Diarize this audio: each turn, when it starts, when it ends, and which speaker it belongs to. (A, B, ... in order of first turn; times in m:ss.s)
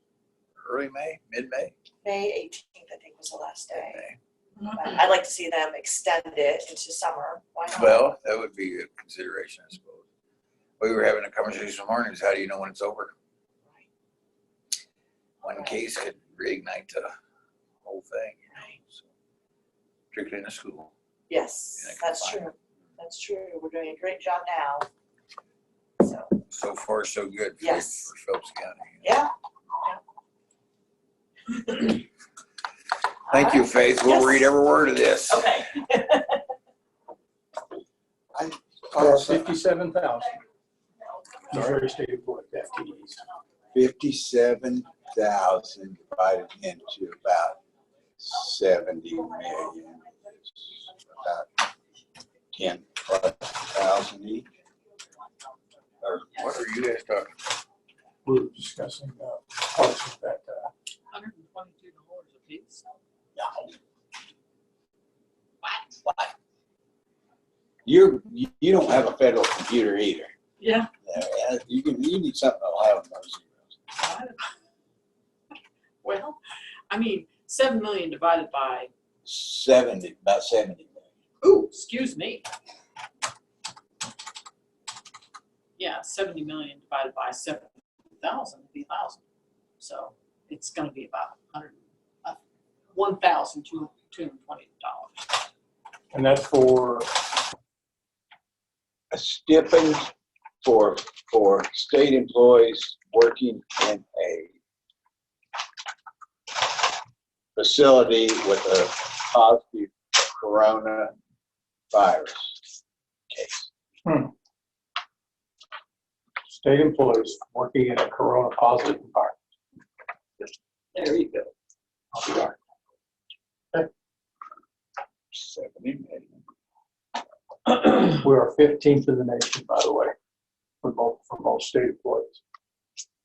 0:00.6-0:01.7 A
0:02.0-0:04.0 B
0:03.7-0:04.2 A
0:04.7-0:08.0 B
0:07.7-0:10.0 A
0:10.8-0:13.1 A
0:15.4-0:17.1 A
0:15.5-0:15.8 B
0:17.8-0:19.1 A
0:20.1-0:20.9 A
0:21.3-0:24.9 B
0:21.8-0:22.4 A
0:26.0-0:26.4 B
0:26.5-0:29.1 A
0:27.6-0:28.1 B
0:29.0-0:29.3 B
0:31.5-0:32.0 B
0:33.3-0:34.5 B
0:33.3-0:35.6 A
0:35.3-0:36.4 B
0:38.3-0:39.6 C
0:38.9-0:40.4 D
0:41.5-0:43.2 D
0:43.7-0:47.6 C
0:48.2-0:51.6 C
0:52.5-0:54.5 C
0:56.0-0:57.4 A
0:58.2-1:00.7 D
1:01.1-1:02.9 E
1:03.4-1:03.7 C
1:05.6-1:06.0 E
1:07.8-1:10.3 C
1:10.6-1:10.9 E
1:11.0-1:13.7 C
1:13.9-1:14.5 E
1:16.0-1:18.9 E
1:19.2-1:21.1 C
1:21.4-1:22.5 E
1:25.8-1:29.2 E
1:29.8-1:32.4 E
1:32.9-1:35.4 E
1:36.1-1:37.1 D
1:39.1-1:40.1 C
1:40.6-1:44.5 C
1:47.6-1:51.1 C
1:51.9-1:52.6 C
1:53.3-1:53.7 C
1:54.0-1:54.3 D
1:56.5-1:59.4 D
2:00.9-2:01.5 E
2:02.1-2:02.6 D
2:05.4-2:06.2 C
2:07.7-2:10.1 D
2:10.8-2:12.4 D